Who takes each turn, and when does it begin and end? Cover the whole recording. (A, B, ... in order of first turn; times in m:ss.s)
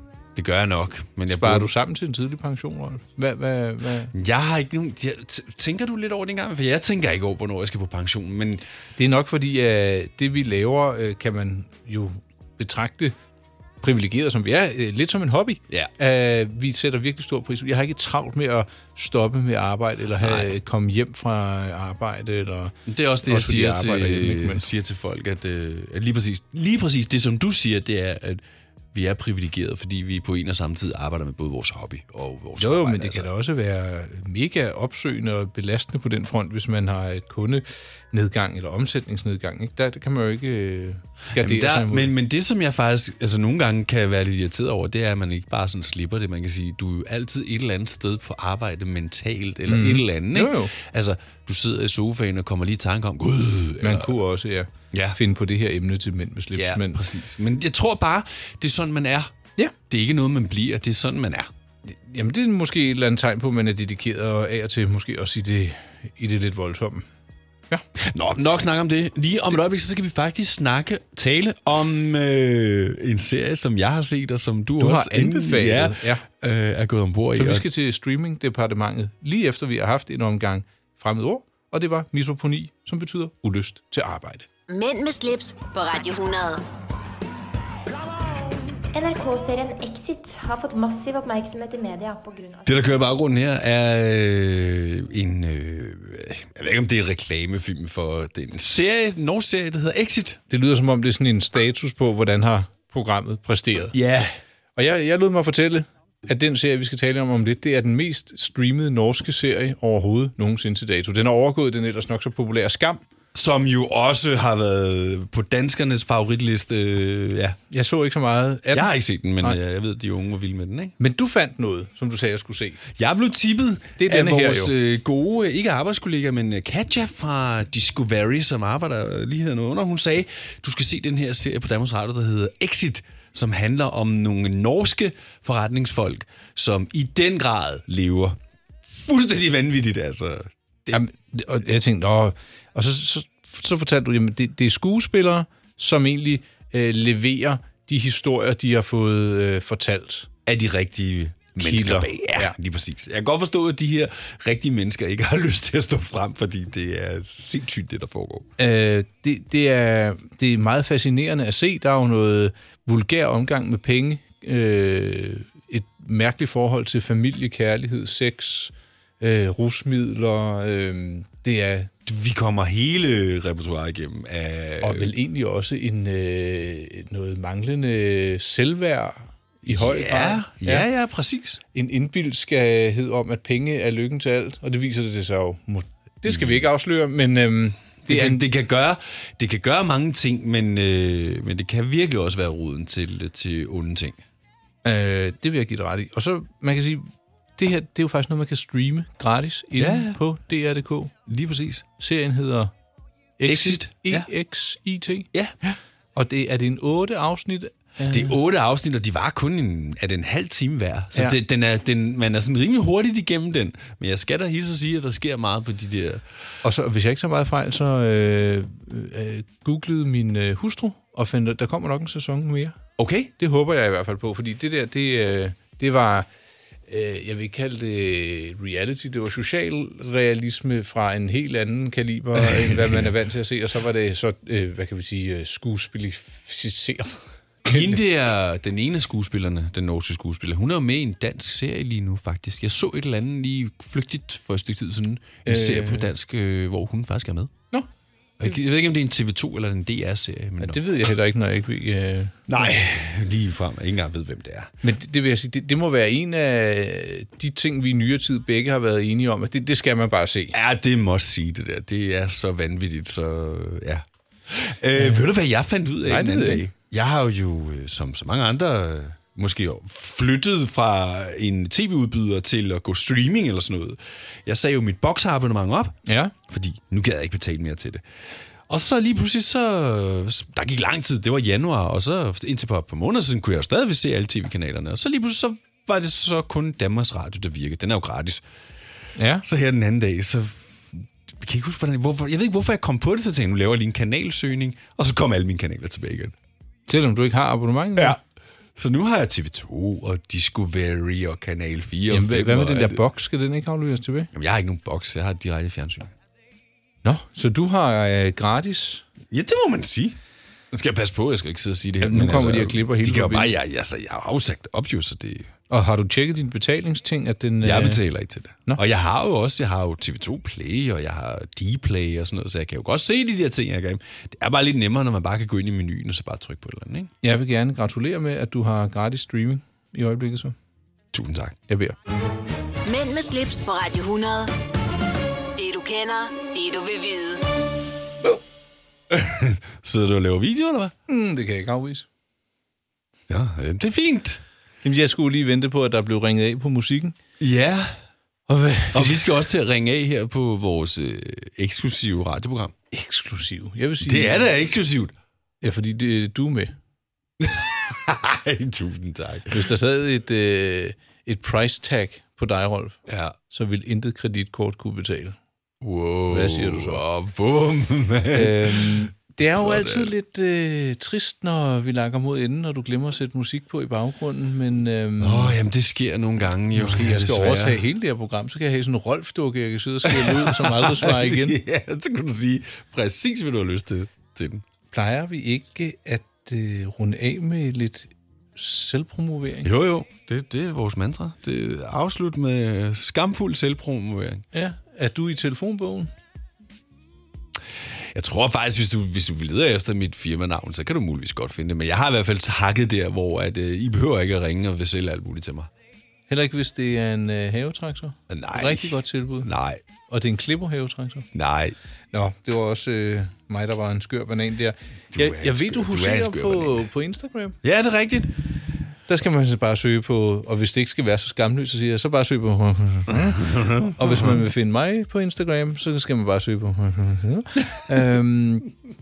0:00.3-0:01.7 A
0:01.3-0:04.1 B
0:04.1-0:08.6 A
0:09.0-0:13.2 B
0:13.8-0:24.7 B
0:20.2-0:20.5 A
0:22.9-0:28.4 A
0:28.9-0:33.3 A
0:32.6-0:42.1 B
0:41.3-0:54.1 A
0:49.7-0:50.7 B
0:53.8-0:57.0 B
0:54.9-0:55.2 A
0:56.5-0:59.3 A
0:59.9-1:01.5 A
1:01.8-1:07.1 B
1:08.0-1:17.6 A
1:14.8-1:16.2 B
1:17.3-1:24.4 B
1:24.7-1:26.6 C
1:28.9-1:32.8 D
1:32.6-1:40.4 A
1:40.5-1:43.9 B
1:43.9-1:44.4 A
1:44.8-1:53.0 B
1:53.3-1:57.6 A
1:57.7-1:59.6 B
1:58.7-2:00.9 A
2:01.0-2:02.8 B
2:02.9-2:18.4 A
2:04.0-2:04.7 B
2:19.0-2:21.0 A
2:20.9-2:30.3 B
2:30.4-2:38.5 A
2:31.6-2:32.5 B
2:38.6-2:51.9 B
2:52.0-2:55.1 A
2:54.8-3:00.9 B
2:59.6-3:01.6 A
3:01.7-3:08.4 B
3:06.2-3:06.6 A
3:08.0-3:14.2 A
3:14.8-3:21.1 B
3:19.8-3:20.2 A
3:21.2-3:21.8 A
3:22.0-3:22.7 B
3:23.4-3:28.4 B
3:23.4-3:24.3 A
3:28.1-3:36.2 A
3:36.6-3:42.8 B
3:43.0-3:43.3 A
3:43.4-3:46.3 B
3:46.9-3:58.0 B
3:52.4-3:53.1 A
3:57.6-4:07.5 A
4:05.4-4:06.1 B
4:08.4-4:10.8 A
4:10.6-4:12.6 B
4:12.5-4:14.7 A
4:14.8-4:20.6 B
4:20.5-4:38.0 A
4:25.0-4:25.2 B
4:26.1-4:26.6 B
4:36.0-4:36.3 B
4:38.7-4:48.4 A
4:49.2-4:49.4 B
4:49.4-4:56.3 A
4:56.9-4:58.2 B
4:58.8-5:03.0 A
5:02.1-5:04.3 B
5:04.3-5:06.1 A
5:07.0-5:09.0 B
5:09.3-5:10.2 A
5:10.7-5:15.5 A
5:12.0-5:13.5 B
5:15.7-5:18.0 B
5:17.6-5:27.1 A
5:27.2-5:30.5 B
5:31.1-5:31.6 A
5:31.7-5:32.0 B
5:32.8-5:34.5 C
5:35.6-5:37.4 C
5:39.1-5:40.9 A
5:41.1-5:42.0 B
5:43.3-5:44.4 A
5:44.8-5:47.2 B
5:47.4-5:48.0 A
5:48.5-5:49.3 B
5:48.9-5:52.7 A
5:52.9-5:54.5 B
5:54.0-5:55.1 A
5:55.6-5:56.7 B
5:57.4-5:59.6 A
5:59.5-6:03.0 B
6:03.1-6:03.4 A
6:03.5-6:05.4 B
6:05.8-6:10.1 A
6:06.3-6:07.0 B
6:08.3-6:15.6 B
6:15.2-6:17.8 A
6:16.7-6:21.6 B
6:20.0-6:24.6 A
6:24.9-6:29.7 B
6:29.6-6:34.4 A
6:34.5-6:36.1 B
6:38.1-6:45.7 A
6:46.3-6:49.5 B
6:48.3-6:49.8 A
6:50.1-6:51.3 B
6:51.3-6:51.8 A
6:52.1-6:57.6 B
6:55.1-6:56.8 A
6:57.6-6:58.3 A
6:59.1-7:08.7 B
7:03.1-7:04.4 A